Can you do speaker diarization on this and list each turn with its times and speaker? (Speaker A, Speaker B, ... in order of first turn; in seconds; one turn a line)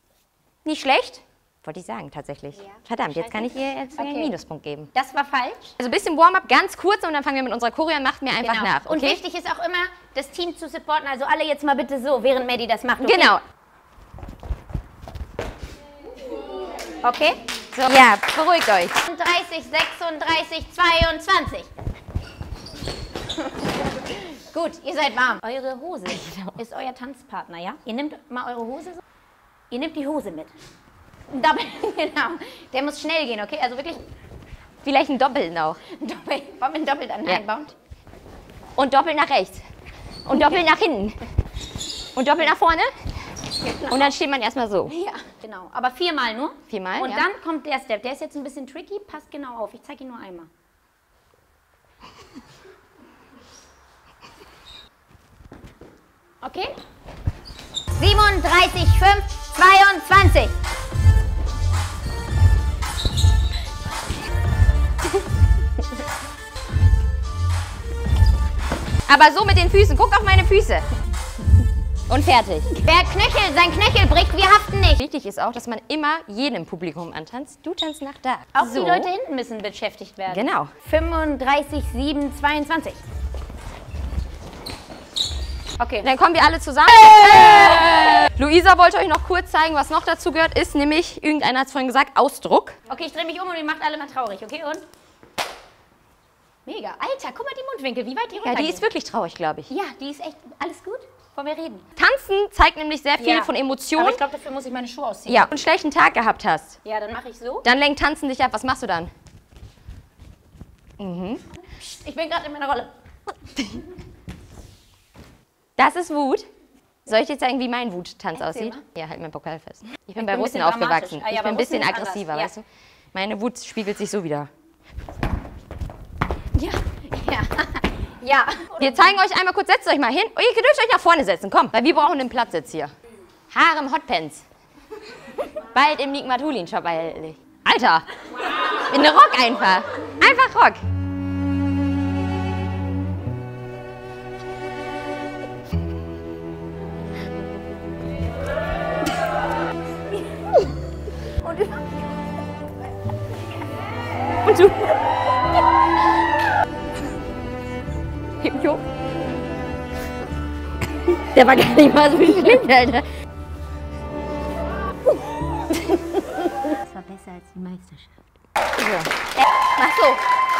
Speaker A: 0.6-4.9
Speaker B: 3.2-3.4
Speaker B: 3.9-4.3
Speaker B: 4.9-5.8
Speaker A: 5.8-9.2
Speaker B: 8.4-13.3
Speaker A: 13.0-13.4
Speaker B: 17.0-17.4
Speaker A: 17.7-18.9
Speaker B: 19.1-21.7
Speaker B: 23.5-29.0
Speaker A: 26.1-26.6
Speaker B: 29.7-30.5
Speaker B: 31.3-34.0
Speaker A: 34.8-35.8
Speaker B: 35.9-37.7
Speaker A: 38.8-39.6
Speaker A: 40.2-41.2
Speaker A: 42.1-42.9
Speaker B: 43.6-44.1
Speaker A: 43.9-44.9
Speaker B: 44.9-50.5
Speaker A: 46.7-47.3
Speaker B: 56.4-56.8
Speaker B: 58.0-60.5
Speaker A: 69.0-70.9
Speaker A: 72.1-72.7
Speaker B: 72.8-75.0
Speaker A: 75.0-79.1
Speaker B: 78.5-83.0
Speaker A: 80.3-80.7
Speaker B: 85.8-86.1
Speaker A: 86.0-92.8
Speaker B: 92.9-94.8
Speaker B: 96.7-98.9
Speaker A: 98.3-99.7
Speaker B: 99.7-101.8
Speaker A: 102.0-104.2
Speaker B: 103.2-105.5
Speaker A: 105.3-106.8
Speaker B: 106.8-107.7
Speaker A: 107.6-109.1
Speaker A: 111.0-111.4
Speaker B: 111.8-112.9
Speaker A: 115.8-116.5
Speaker A: 117.0-124.5
Speaker B: 118.3-118.8
Speaker B: 120.2-122.5
Speaker B: 126.5-129.1
Speaker A: 128.8-132.9
Speaker A: 133.5-134.4
Speaker A: 135.7-140.8
Speaker A: 151.4-151.8
Speaker A: 154.4-154.9
Speaker A: 158.4-158.8
Speaker A: 161.1-163.1
Speaker B: 166.6-168.2
Speaker A: 168.7-170.2